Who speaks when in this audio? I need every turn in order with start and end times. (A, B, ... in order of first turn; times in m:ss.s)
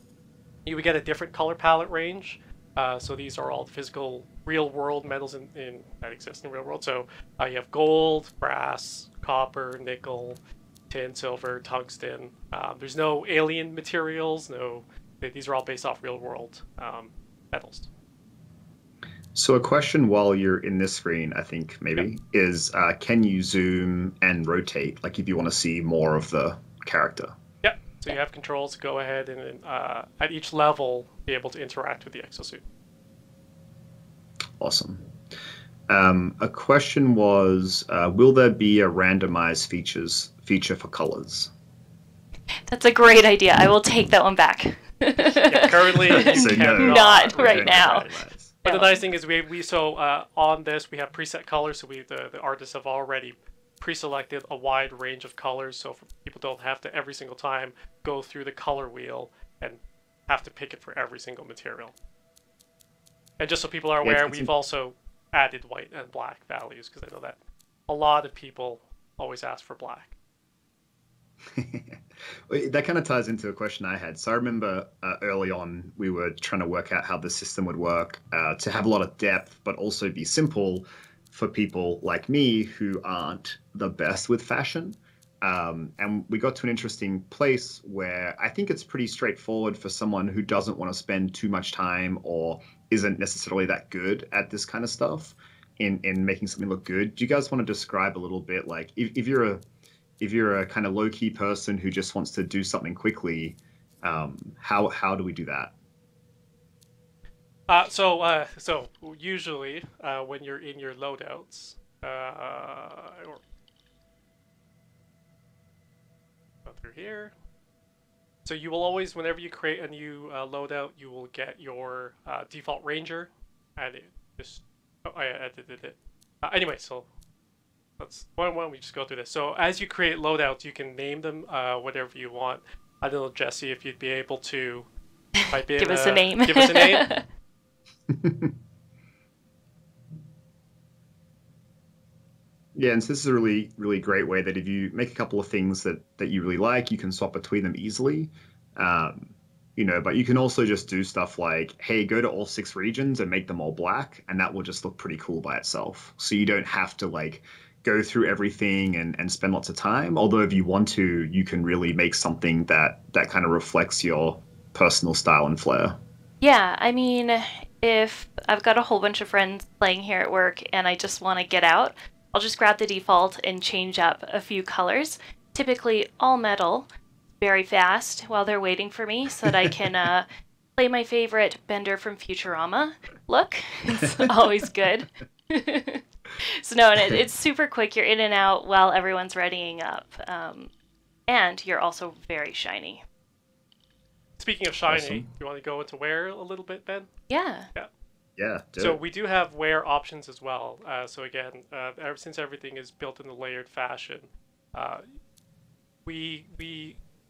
0:00.7-0:10.4 A
0:10.9-0:17.9 A
0:19.4-0:27.4 B
0:27.6-0:32.6 A
0:34.6-0:35.1 B
0:35.9-0:41.5 B
0:42.7-0:48.1 C
0:45.4-0:48.1 A
0:46.1-0:48.6 B
0:48.6-0:49.0 C
0:48.6-1:01.9 A
1:03.4-1:07.4 A
1:04.0-1:04.5 B
1:07.9-1:10.2 A
1:11.5-1:39.6 B
1:40.2-1:45.7 B
1:47.7-1:53.4 A
1:56.7-1:57.3 A
1:58.4-2:07.1 A
2:08.0-2:14.9 A
2:15.4-2:17.2 C
2:15.5-2:17.1 A
2:18.1-2:18.5 B
2:22.8-2:46.0 B
2:46.4-2:56.9 C
2:57.4-3:10.7 C
3:11.3-3:13.0 C
3:14.4-3:17.1 A
3:14.9-3:15.3 B
3:17.3-3:17.7 C
3:18.4-3:19.0 B
3:18.8-3:25.1 A
3:26.0-3:27.0 A